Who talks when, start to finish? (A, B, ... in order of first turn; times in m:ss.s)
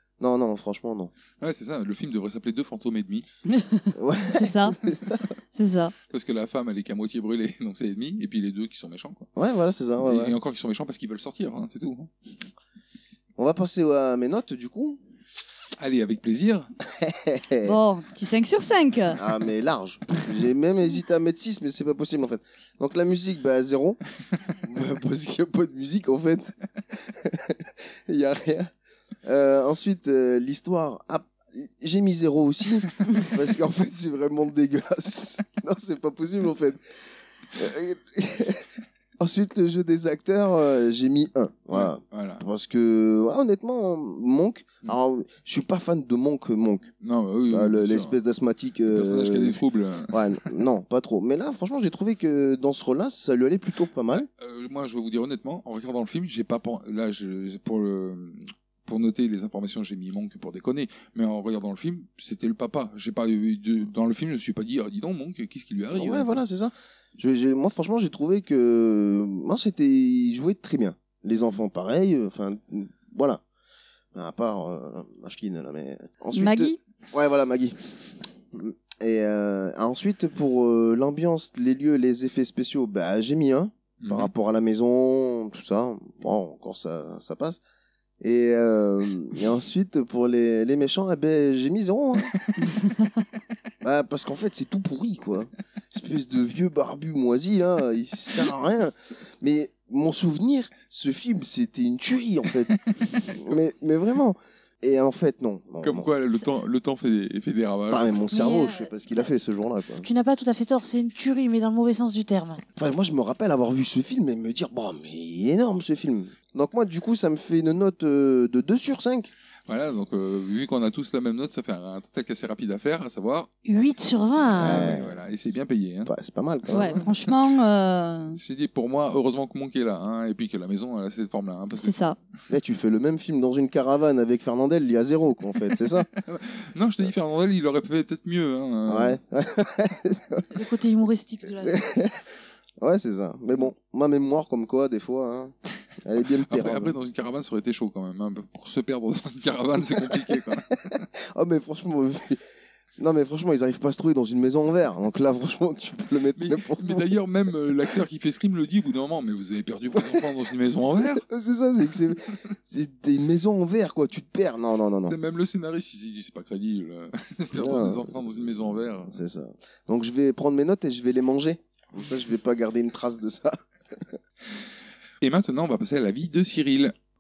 0:00.2-0:01.1 A
0:01.4-0:03.3 B
0:03.5-0:04.8 C
0:04.0-0:05.3 A
0:05.6-0:05.9 C
0:06.1-0:09.3 B
0:09.4-0:10.4 A
0:10.0-0:12.1 B
0:13.4-0:15.0 A
0:15.8-0:16.7 B
0:16.9-0:17.8 A
0:17.6-0:19.2 C
0:19.2-0:24.0 A
0:24.6-0:28.7 A
0:29.2-0:36.8 A
0:37.5-0:38.7 A
0:39.2-0:46.9 A
0:41.7-0:42.4 B
0:47.0-0:48.1 B
0:47.5-0:54.3 A
0:48.9-0:50.2 B
0:54.1-1:06.4 B
1:05.9-1:13.4 A
1:14.1-1:17.8 A
1:16.3-1:16.8 C
1:18.5-1:27.6 A
1:24.0-1:24.3 B
1:28.2-1:32.3 A
1:33.8-1:42.8 A
1:43.3-1:46.1 A
1:45.8-1:48.1 B
1:47.9-1:50.1 A
1:48.3-1:49.2 D
1:50.0-1:52.6 D
1:52.8-1:59.3 A
1:59.7-2:03.5 B
2:03.6-2:04.9 D
2:04.6-2:06.1 B
2:04.6-2:05.3 A
2:06.0-2:07.1 A
2:06.7-2:08.4 C
2:08.4-2:12.0 B
2:11.8-2:12.2 C
2:12.5-2:16.1 A
2:16.3-2:19.2 B
2:18.9-2:20.5 A
2:20.5-2:21.8 D
2:21.6-2:22.2 A
2:22.8-2:27.0 A
2:26.4-2:30.7 B
2:30.0-2:30.4 A
2:31.3-2:32.4 A
2:33.0-2:37.2 A
2:36.4-2:41.2 B
2:39.9-2:40.3 A
2:41.0-2:45.2 A
2:45.0-2:49.2 B
2:47.5-2:54.2 A
2:55.2-2:56.9 B